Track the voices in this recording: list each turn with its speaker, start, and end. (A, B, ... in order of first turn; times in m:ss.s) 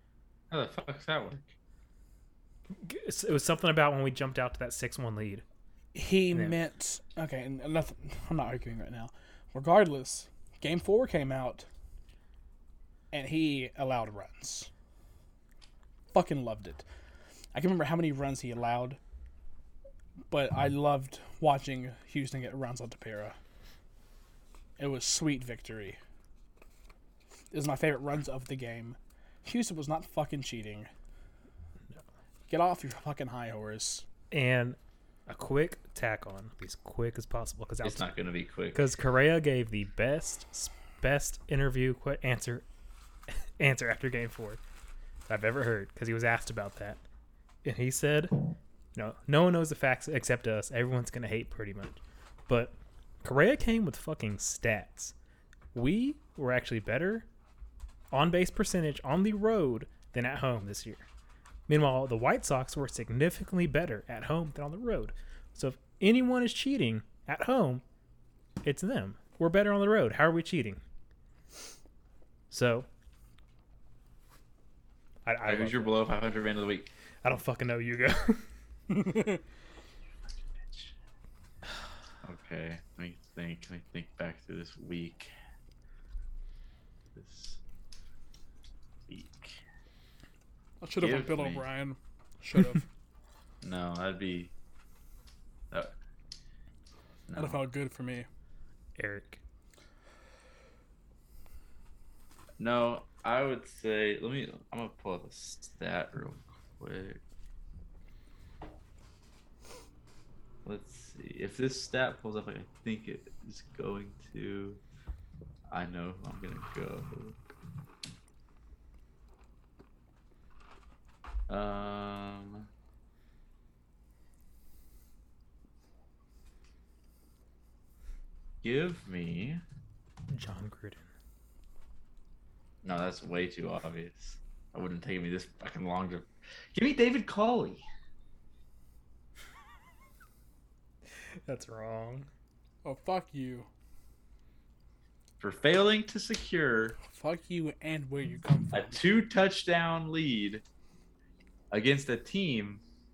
0:00.5-0:01.5 A
0:02.8-0:05.4 B
0:05.9-0:11.6 C
0:06.3-0:06.6 B
0:13.1-0:14.7 C
0:16.1-0:16.8 C
0:17.5-0:19.0 C
0:20.3-0:23.4 C
0:24.8-0:26.0 C
0:27.5-0:30.9 C
0:32.5-0:34.0 C
0:34.3-0:38.1 B
0:37.8-0:38.8 A
0:38.7-0:42.6 B
0:43.6-0:44.6 B
0:45.3-0:47.0 B
0:47.6-0:48.4 B
0:48.9-0:55.1 B
0:55.7-0:57.2 B
0:58.1-1:01.0 B
1:01.7-1:07.8 B
1:08.6-1:10.8 B
1:12.5-1:12.9 B
1:15.2-1:16.0 B
1:15.4-1:16.9 A
1:17.2-1:18.5 B
1:19.0-1:19.4 C
1:20.3-1:20.9 A
1:22.2-1:25.3 A
1:27.1-1:27.6 A
1:29.1-1:29.6 A
1:30.8-1:32.8 C
1:31.0-1:31.6 A
1:33.6-1:34.5 A
1:37.3-1:37.6 A
1:37.4-1:38.2 C
1:39.0-1:39.4 B
1:42.6-1:47.2 A
1:50.6-1:54.8 A
1:55.7-1:57.4 A
2:01.5-2:02.7 A
2:08.6-2:09.6 A
2:10.3-2:11.1 B
2:12.8-2:17.8 A
2:21.4-2:22.3 B
2:22.8-2:23.7 C
2:25.4-2:27.0 A
2:27.1-2:29.0 C
2:28.7-2:30.6 A
2:31.7-2:32.8 A